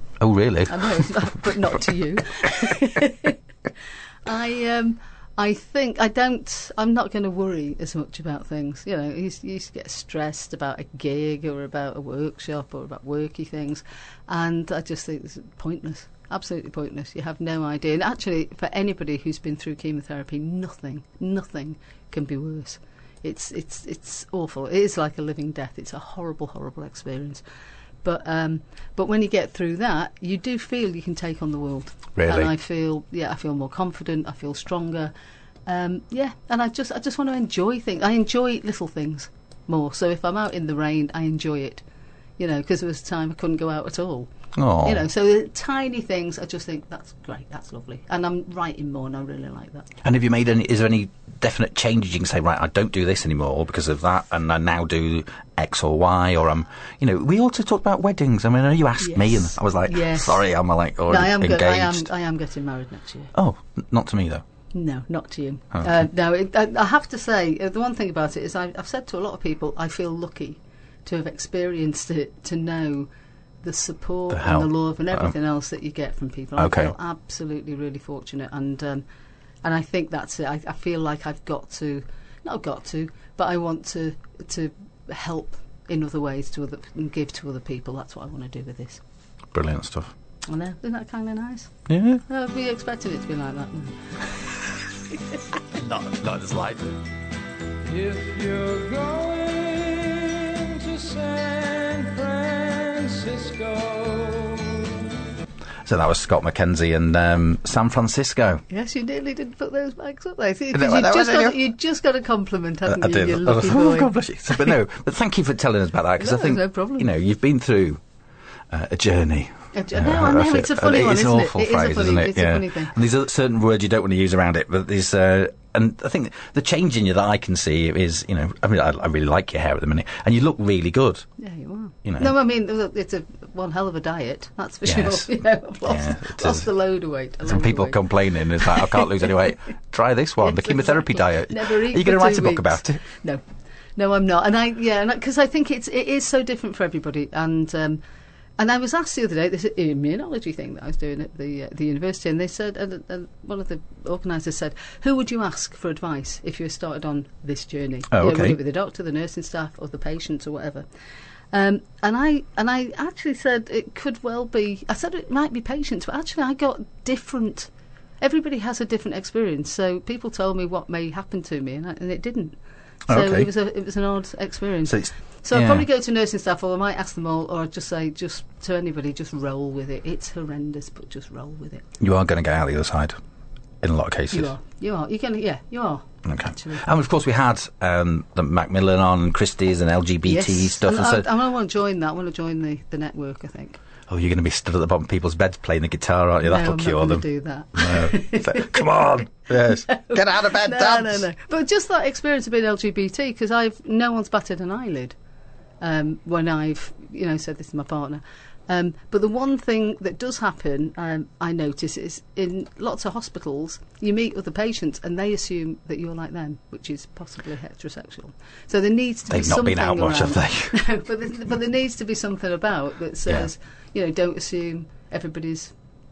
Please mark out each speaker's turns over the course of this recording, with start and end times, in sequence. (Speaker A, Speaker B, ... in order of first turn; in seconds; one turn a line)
Speaker A: 0.2-1.5
Speaker B: 0.7-3.4
Speaker B: 4.2-27.4
Speaker B: 28.0-35.1
Speaker A: 32.1-32.5
Speaker B: 35.6-41.8
Speaker B: 42.4-49.9
Speaker A: 44.5-45.0
Speaker A: 50.0-62.1
Speaker B: 59.0-60.4
Speaker B: 61.1-63.3
Speaker A: 63.3-64.4
Speaker B: 64.7-73.1
Speaker B: 73.6-79.0
Speaker A: 74.3-75.3
Speaker A: 76.6-76.9
Speaker B: 79.6-89.0
Speaker A: 89.5-90.1
Speaker B: 90.5-91.7
Speaker A: 91.9-92.2
Speaker B: 92.3-94.0
Speaker A: 95.7-97.0
Speaker C: 97.9-105.0
Speaker A: 105.8-108.6
Speaker B: 108.7-114.7
Speaker A: 110.7-111.6
Speaker A: 112.9-118.0
Speaker B: 116.2-117.1
Speaker A: 118.7-131.2
Speaker B: 119.7-123.0
Speaker B: 131.4-139.4
Speaker A: 132.1-132.3
Speaker A: 134.8-135.3
Speaker A: 135.9-136.7
Speaker A: 137.4-143.0
Speaker B: 140.4-143.4
Speaker B: 143.9-148.0
Speaker B: 148.6-160.9
Speaker A: 158.1-158.6
Speaker B: 161.5-167.7
Speaker B: 168.2-172.6
Speaker B: 173.1-181.9
Speaker A: 173.1-173.5
Speaker A: 174.9-175.9
Speaker A: 182.0-183.2
Speaker A: 183.8-184.5
Speaker B: 184.3-186.9
Speaker A: 186.2-191.3
Speaker B: 190.2-193.8
Speaker A: 194.1-201.2
Speaker B: 196.4-199.1
Speaker B: 199.6-205.1
Speaker B: 205.8-225.7
Speaker A: 219.3-220.8